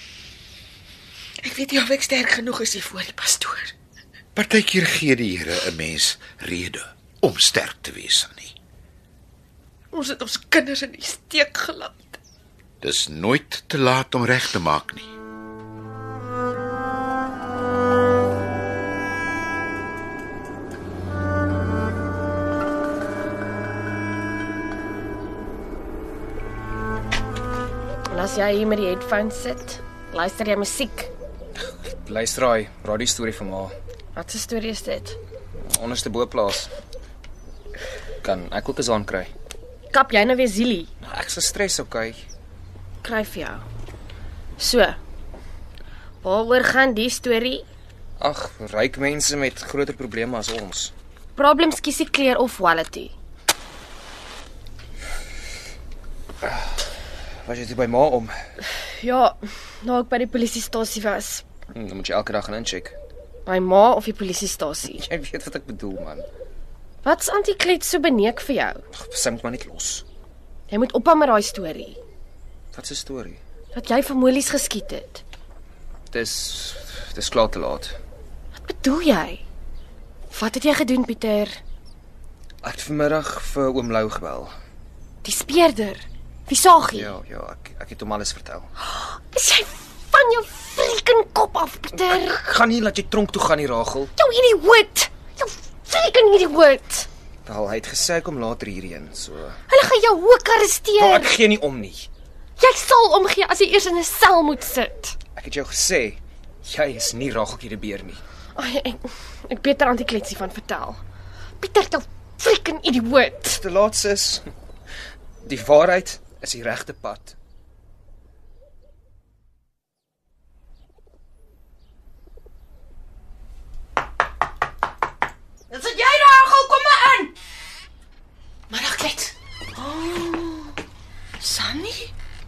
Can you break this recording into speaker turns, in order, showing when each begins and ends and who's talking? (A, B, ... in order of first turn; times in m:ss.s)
0:01.4-0:03.7 A
0:04.3-0:08.5 B
0:09.9-0:12.2 A
0:12.8-0:15.1 B
0:28.1-0:31.1 C
0:31.8-0:33.8 D
0:34.1-0:35.2 C
0:35.6-0:36.7 D
0:38.2-0:39.3 D
0:39.9-0:40.9 C
0:41.0-0:42.2 D
0:43.0-0:43.6 C
0:44.6-0:45.0 C
0:46.2-0:47.6 C
0:48.2-0:50.9 D
0:51.4-0:53.1 C
0:57.4-0:58.4 D
0:58.8-1:01.4 C
1:01.7-1:03.0 D
1:03.4-1:05.0 C
1:04.9-1:06.3 D
1:07.0-1:08.8 C
1:08.9-1:10.0 D
1:10.7-1:12.0 C
1:12.7-1:13.4 D
1:13.7-1:15.2 C
1:16.1-1:18.0 D
1:18.5-1:19.4 C
1:20.3-1:21.6 C
1:22.6-1:24.5 D
1:25.2-1:27.1 C
1:26.9-1:28.7 D
1:28.8-1:32.4 C
1:32.1-1:34.1 D
1:34.2-1:37.1 C
1:37.4-1:39.6 D
1:39.7-1:41.3 C
1:41.0-1:42.1 D
1:42.6-1:45.1 C
1:45.4-1:48.2 D
1:48.6-1:51.0 C
1:51.6-1:53.6 C
1:53.5-1:54.4 D
1:55.4-1:57.3 D
2:05.7-2:07.3 E
2:08.7-2:09.3 A
2:09.7-2:10.8 E
2:11.4-2:12.1 E